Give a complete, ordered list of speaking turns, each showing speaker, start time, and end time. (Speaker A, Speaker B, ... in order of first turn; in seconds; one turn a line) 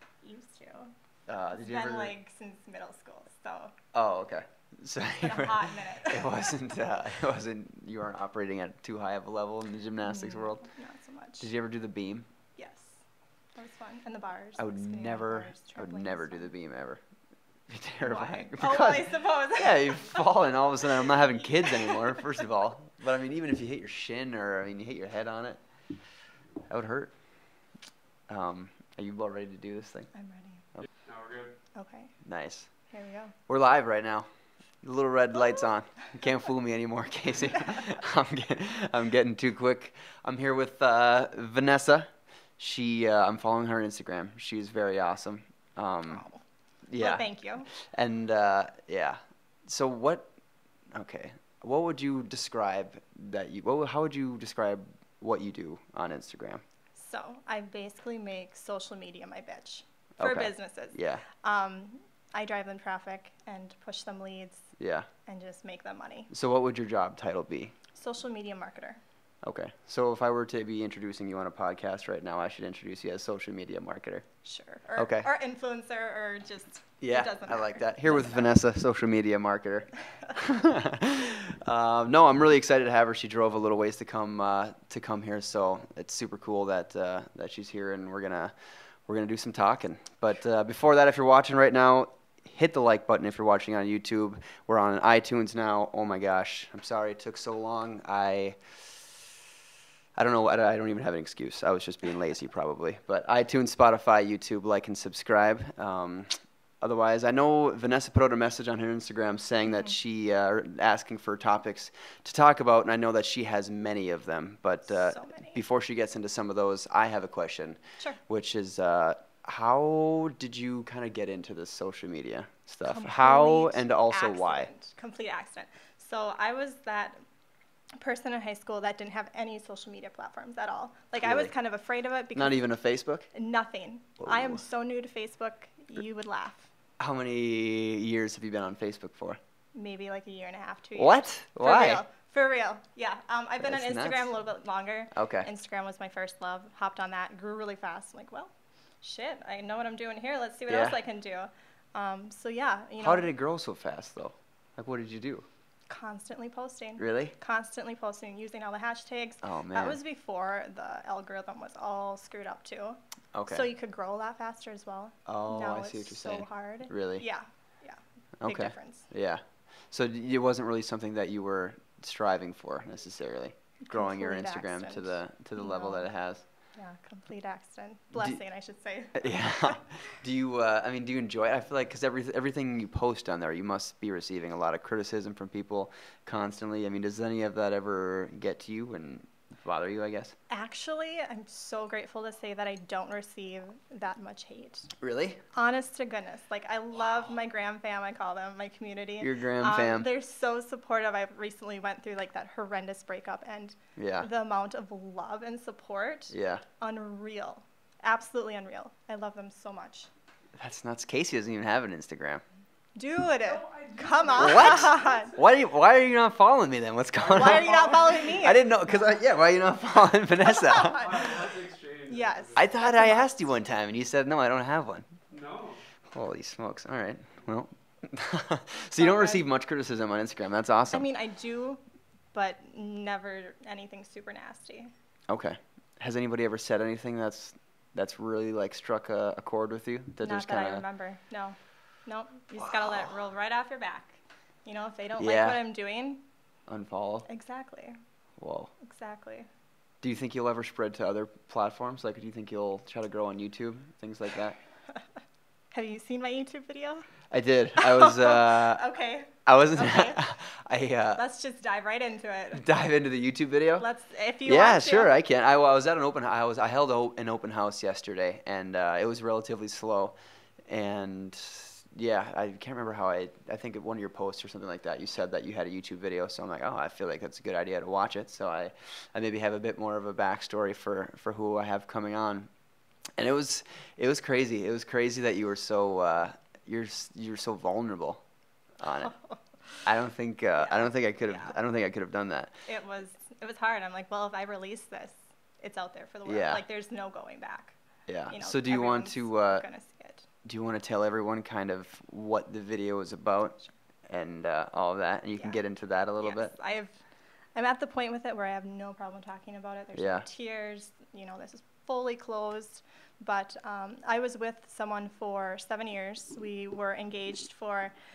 Speaker A: 0.2-0.9
Speaker B: 1.3-2.1
Speaker A: 1.5-3.7
Speaker B: 3.9-10.7
Speaker A: 5.2-6.7
Speaker A: 10.0-11.5
Speaker B: 11.4-12.3
Speaker A: 12.6-13.0
Speaker A: 13.6-16.5
Speaker B: 14.6-17.0
Speaker B: 17.7-25.6
Speaker A: 18.0-20.3
Speaker A: 20.8-22.4
Speaker B: 26.7-27.1
Speaker B: 28.3-30.1
Speaker A: 30.1-30.6
Speaker C: 31.0-31.5
Speaker A: 31.7-32.1
Speaker B: 32.2-32.7
Speaker A: 32.9-33.3
Speaker B: 33.5-34.3
Speaker B: 34.8-46.2
Speaker A: 46.1-46.4
Speaker B: 46.9-47.3
Speaker A: 47.0-47.7
Speaker B: 47.8-50.3
Speaker B: 50.9-56.6
Speaker A: 56.9-64.7
Speaker B: 60.2-61.2
Speaker B: 64.8-65.1
Speaker A: 65.2-66.3
Speaker B: 66.3-67.7
Speaker A: 67.9-69.0
Speaker B: 69.4-74.2
Speaker A: 74.4-78.5
Speaker B: 75.0-75.3
Speaker B: 77.0-88.5
Speaker B: 89.1-99.1
Speaker B: 100.2-124.7
Speaker A: 114.9-115.6
Speaker A: 122.8-127.2
Speaker A: 128.0-132.6
Speaker B: 131.2-131.5
Speaker B: 132.3-133.3
Speaker A: 133.3-136.7
Speaker B: 134.2-134.6
Speaker B: 137.0-139.4
Speaker A: 139.7-153.3
Speaker B: 141.0-142.0
Speaker B: 143.6-144.3
Speaker B: 145.1-145.5
Speaker B: 150.7-151.0
Speaker B: 153.0-155.5
Speaker A: 155.9-169.1
Speaker B: 157.0-157.3
Speaker B: 159.4-160.0
Speaker B: 163.3-163.7
Speaker B: 165.3-167.2
Speaker B: 168.4-176.4
Speaker A: 173.8-176.1
Speaker A: 176.8-179.8
Speaker B: 178.1-178.4
Speaker B: 179.1-190.3
Speaker A: 190.5-194.9
Speaker B: 195.0-195.4
Speaker A: 195.5-210.1
Speaker B: 199.2-200.1
Speaker B: 203.9-204.3
Speaker B: 206.3-206.6
Speaker B: 210.6-212.4
Speaker A: 212.9-215.3
Speaker C: 213.4-215.4
Speaker B: 214.4-221.1
Speaker C: 217.1-218.3
Speaker A: 217.3-218.7
Speaker A: 220.6-221.2
Speaker C: 220.7-222.7
Speaker A: 222.1-223.5
Speaker B: 222.6-225.1
Speaker C: 225.3-225.8
Speaker B: 226.1-231.1
Speaker A: 229.0-229.4
Speaker A: 230.9-231.8
Speaker A: 232.3-234.9
Speaker B: 235.3-240.8
Speaker A: 240.2-246.2
Speaker B: 242.6-243.1
Speaker B: 245.2-245.6
Speaker B: 246.7-247.3
Speaker A: 247.3-248.0
Speaker B: 248.4-248.7
Speaker A: 248.8-249.5
Speaker B: 250.0-254.6
Speaker A: 255.7-257.0
Speaker B: 257.3-258.8
Speaker A: 257.8-260.3
Speaker B: 259.4-261.2
Speaker A: 261.1-262.6
Speaker B: 262.5-263.9
Speaker A: 263.8-265.1
Speaker B: 264.4-270.1
Speaker B: 270.7-282.5
Speaker B: 283.2-288.2
Speaker B: 288.8-289.1
Speaker A: 289.1-289.4
Speaker B: 289.8-292.6
Speaker A: 290.6-291.5
Speaker A: 292.6-297.8
Speaker B: 296.2-296.6
Speaker B: 298.1-299.6
Speaker A: 298.3-300.2
Speaker B: 300.4-306.5
Speaker A: 306.2-307.0
Speaker A: 307.5-317.9
Speaker B: 309.9-310.2